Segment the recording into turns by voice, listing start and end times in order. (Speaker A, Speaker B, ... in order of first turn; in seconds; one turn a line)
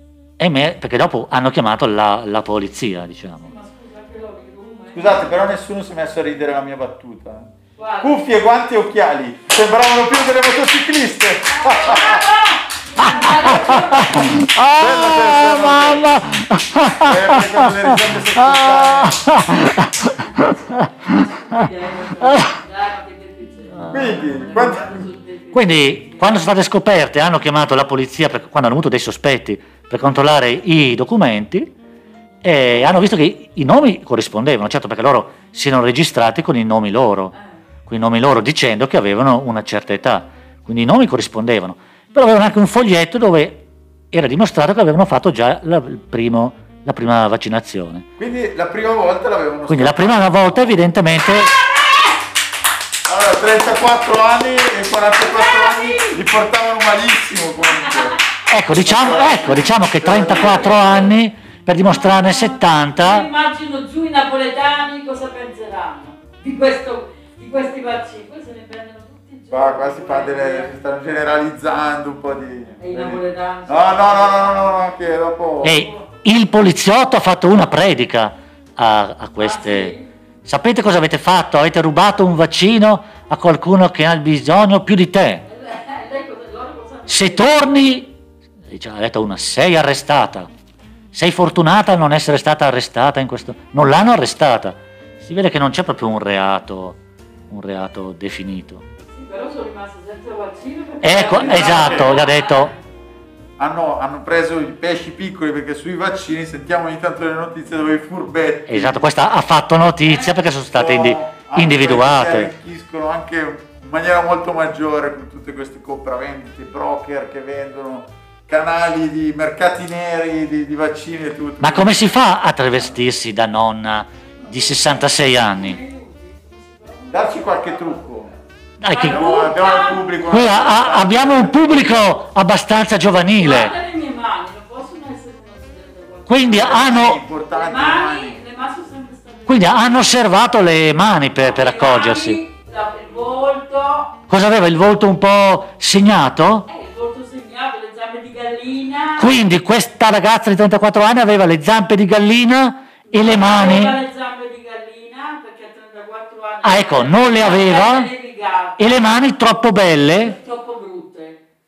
Speaker A: 0.4-3.5
Speaker B: 3.4-5.3
Speaker C: 4.9-7.5
Speaker B: 7.8-8.2
Speaker C: 8.0-12.3
Speaker B: 11.5-14.4
Speaker A: 13.0-20.9
Speaker C: 13.5-14.1
Speaker C: 14.7-16.1
Speaker C: 17.0-19.3
Speaker B: 20.3-26.3
Speaker A: 22.2-22.5
Speaker A: 23.8-24.1
Speaker C: 23.9-25.1
Speaker A: 25.5-31.7
Speaker A: 32.4-37.3
Speaker A: 37.9-48.0
Speaker C: 48.2-50.8
Speaker A: 49.7-51.6
Speaker B: 51.6-52.1
Speaker C: 53.1-61.1
Speaker B: 55.2-56.2
Speaker B: 57.8-58.1
Speaker A: 58.5-63.3
Speaker B: 60.3-61.1
Speaker B: 61.8-70.7
Speaker C: 69.5-75.9
Speaker B: 72.8-74.8
Speaker A: 75.6-79.9
Speaker B: 75.7-76.0
Speaker B: 79.4-80.1
Speaker A: 80.5-85.5
Speaker B: 85.5-87.8
Speaker A: 87.1-88.1
Speaker A: 88.7-90.5
Speaker A: 91.1-97.0
Speaker A: 97.5-98.8
Speaker B: 99.1-102.8
Speaker A: 101.0-102.7
Speaker C: 101.3-102.2
Speaker C: 103.6-109.1
Speaker A: 108.7-112.5
Speaker B: 110.0-110.3
Speaker C: 110.7-122.1
Speaker A: 121.6-125.8
Speaker B: 124.4-128.3
Speaker C: 127.1-128.3
Speaker A: 128.8-129.4
Speaker B: 128.9-130.1
Speaker C: 129.1-132.0
Speaker A: 130.3-133.7
Speaker B: 133.4-137.0
Speaker A: 136.3-137.2
Speaker C: 136.5-138.4
Speaker B: 137.5-140.2
Speaker A: 139.5-142.4
Speaker B: 141.4-144.2
Speaker A: 144.3-146.7
Speaker B: 146.7-149.3
Speaker A: 149.2-154.0
Speaker B: 153.1-159.3
Speaker A: 156.6-158.1
Speaker A: 158.8-160.4
Speaker B: 160.2-161.4